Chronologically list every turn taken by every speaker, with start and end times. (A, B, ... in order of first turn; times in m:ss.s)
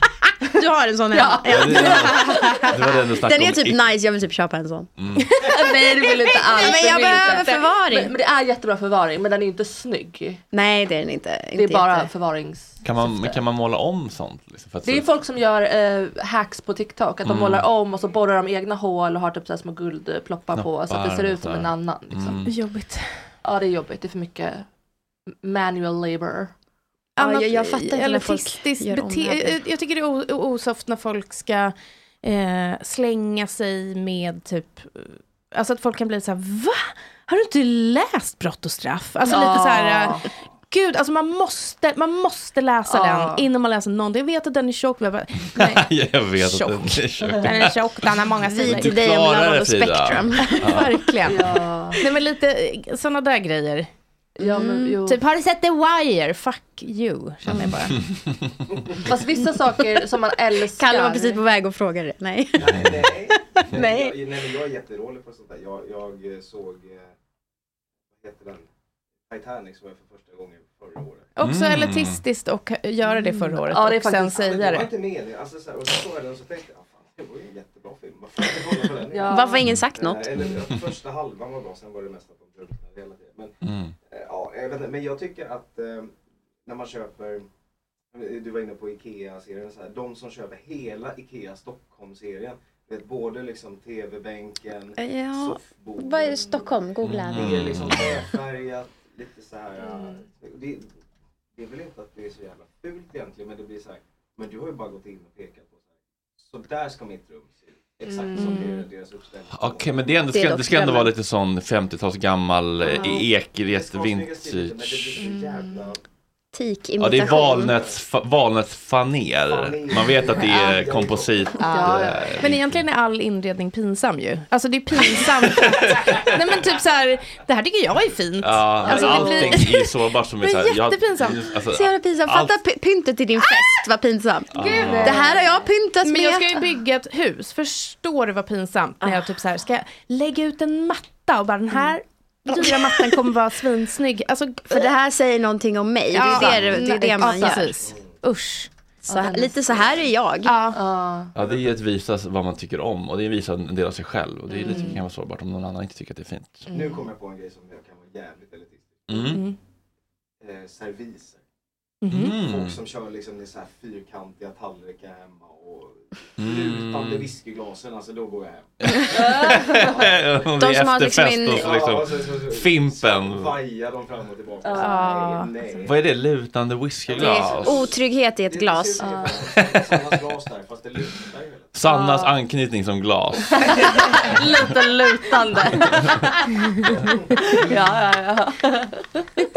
0:00.2-0:04.9 A
0:01.1-0:02.7 B
0:01.5-0:03.8 C
0:05.0-0:05.3 C
0:05.2-0:05.5 D
0:05.4-0:10.4 B
0:06.0-0:08.1 A
0:06.7-0:07.4 D
0:10.5-0:12.1 A
0:11.6-0:13.4 B
0:12.8-0:15.1 C
0:14.8-0:22.5 B
0:17.2-0:17.7 C
0:20.5-0:22.5 C
0:22.4-0:23.1 D
0:23.4-0:24.7 B
0:25.4-0:26.5 B
0:27.2-0:49.0 D
0:27.2-0:29.6 A
0:39.2-0:40.3 B
0:42.9-0:43.5 B
0:45.6-0:48.1 C
0:48.5-0:50.9 A
0:48.6-0:51.4 C
0:50.4-0:53.9 D
0:51.3-0:52.0 B
0:54.4-0:55.2 B
0:54.4-0:55.0 A
0:55.1-0:58.0 D
0:57.5-0:58.3 C
0:58.7-0:59.1 E
0:59.1-1:01.4 B
1:00.8-1:04.4 A
1:02.6-1:07.1 E
1:08.2-1:08.7 E
1:09.3-1:11.3 E
1:11.4-1:14.9 D
1:11.4-1:12.2 C
1:13.2-1:14.9 B
1:14.4-1:23.5 E
1:19.1-1:19.7 B
1:19.3-1:20.4 A
1:23.6-1:24.0 C
1:24.1-1:26.1 E
1:26.6-1:27.5 E
1:28.1-1:40.9 E
1:35.0-1:37.8 A
1:37.0-1:38.2 C
1:39.8-1:40.2 B
1:41.6-1:45.9 E
1:46.4-1:50.2 E
1:48.1-1:48.9 B
1:48.4-1:48.7 D
1:49.5-1:55.2 C
1:50.3-1:51.1 A
1:52.9-1:53.2 A
1:53.6-1:56.0 E
1:55.2-1:55.9 B
1:56.5-1:57.7 A
1:57.0-2:02.8 C
1:57.3-1:58.0 E
1:59.5-2:01.9 E
2:01.6-2:02.4 B
2:02.4-2:11.5 D
2:05.1-2:06.4 C
2:08.4-2:12.6 C
2:08.9-2:09.5 B
2:11.7-2:16.7 A
2:14.6-2:15.3 C
2:14.6-2:15.6 B
2:14.6-2:15.4 D
2:16.0-2:24.8 D
2:19.0-2:19.3 A
2:22.5-2:23.0 A
2:24.7-2:27.7 A
2:26.1-2:28.7 D
2:26.2-2:27.6 B
2:29.1-2:30.0 B
2:29.1-2:30.6 A
2:30.4-2:30.8 D
2:30.7-2:31.3 B
2:31.4-2:36.7 C
2:31.4-2:31.8 E
2:34.5-2:35.0 B
2:34.7-2:35.0 D
2:36.7-2:37.0 B
2:36.7-2:39.4 E
2:39.1-2:39.4 C
2:39.3-2:39.6 D
2:40.4-2:41.4 E
2:42.0-2:42.4 D
2:42.1-2:42.8 C
2:42.2-2:50.5 E
2:46.4-2:47.3 C
2:48.8-2:53.6 C
2:49.1-2:50.0 B
2:50.6-2:51.8 A
2:51.5-2:56.1 E
2:54.6-2:55.3 B
2:54.8-2:55.5 D
2:55.8-2:57.8 C
2:57.1-2:58.0 E
2:57.2-2:59.1 A
2:58.5-3:01.8 E
2:59.0-2:59.5 B
3:01.8-3:03.9 C
3:01.8-3:02.4 B
3:03.5-3:09.3 B
3:05.7-3:06.3 C
3:07.0-3:07.4 E